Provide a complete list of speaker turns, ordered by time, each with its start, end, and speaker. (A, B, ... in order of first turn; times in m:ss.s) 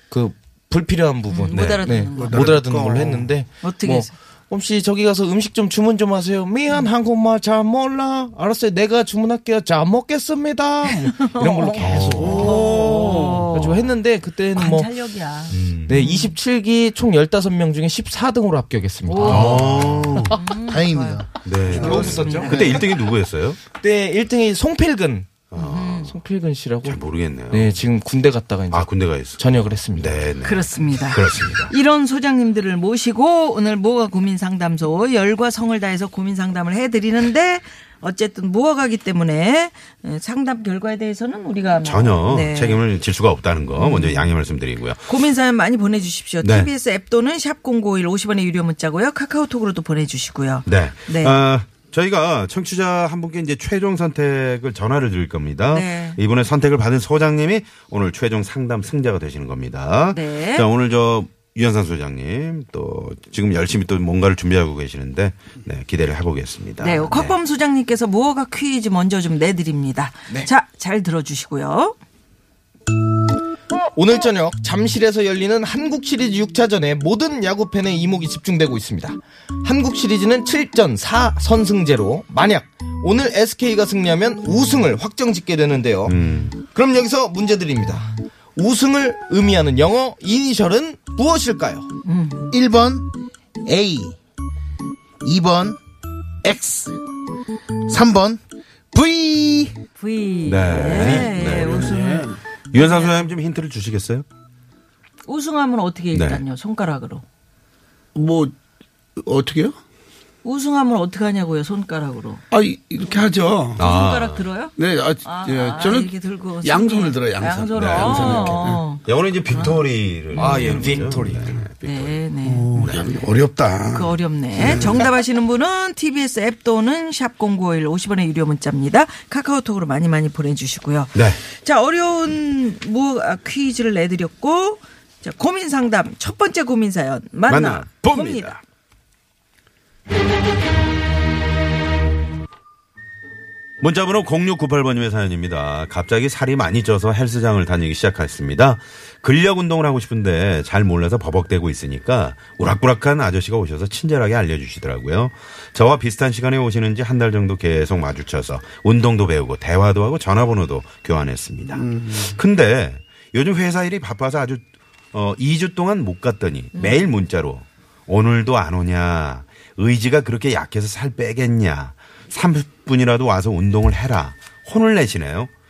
0:00.1-0:14.9 A
0:01.3-0:02.5 B
0:01.5-0:01.9 C
0:02.2-0:03.3 D
0:03.6-0:04.1 B
0:10.9-0:13.8 B
0:11.8-0:12.6 C
0:12.2-0:13.5 D
0:14.5-0:16.3 B
0:15.5-0:15.9 C
0:15.9-0:19.7 A
0:19.1-0:19.6 B
0:19.3-0:20.4 C
0:19.3-0:22.8 E
0:20.3-0:21.2 B
0:21.4-0:23.6 C
0:21.7-0:22.8 A
0:21.8-0:22.8 B
0:23.7-0:25.4 A
0:25.5-0:26.2 C
0:25.6-0:26.1 B
0:26.0-0:27.0 A
0:26.8-0:27.8 C
0:27.5-0:30.2 A
0:28.7-0:31.7 C
0:30.4-0:42.8 B
0:41.8-0:45.0 C
0:43.8-0:44.3 B
0:45.1-0:51.4 B
0:46.4-0:46.7 C
0:50.7-1:07.4 C
0:55.7-0:56.2 B
1:00.1-1:00.7 B
1:06.8-1:12.0 B
1:13.9-1:31.9 A
1:26.1-1:26.6 C
1:32.0-1:32.5 B
1:32.5-1:33.1 E
1:33.6-1:34.2 E
1:35.2-1:35.8 E
1:36.4-1:37.0 E
1:37.9-1:38.4 E
1:38.9-1:39.8 E
1:40.0-1:43.3 B
1:40.4-1:42.0 C
1:40.8-1:42.4 D
1:42.7-1:44.2 C
1:45.3-1:47.2 B
1:46.1-1:46.4 C
1:48.2-1:48.5 D
1:49.2-1:49.8 D
1:50.4-1:52.4 B
1:52.5-1:53.8 D
1:53.8-1:54.5 C
1:53.8-1:59.8 B
1:54.8-1:56.1 D
1:56.6-1:58.8 D
1:57.8-2:02.2 C
2:00.3-2:00.9 B
2:00.4-2:01.6 A
2:01.8-2:02.7 B
2:02.4-2:05.1 D
2:02.8-2:03.0 C
2:03.9-2:18.6 B
2:11.1-2:11.4 C
2:17.5-2:18.6 C
2:23.8-2:55.5 C
2:41.7-2:42.4 D
2:46.8-2:47.0 B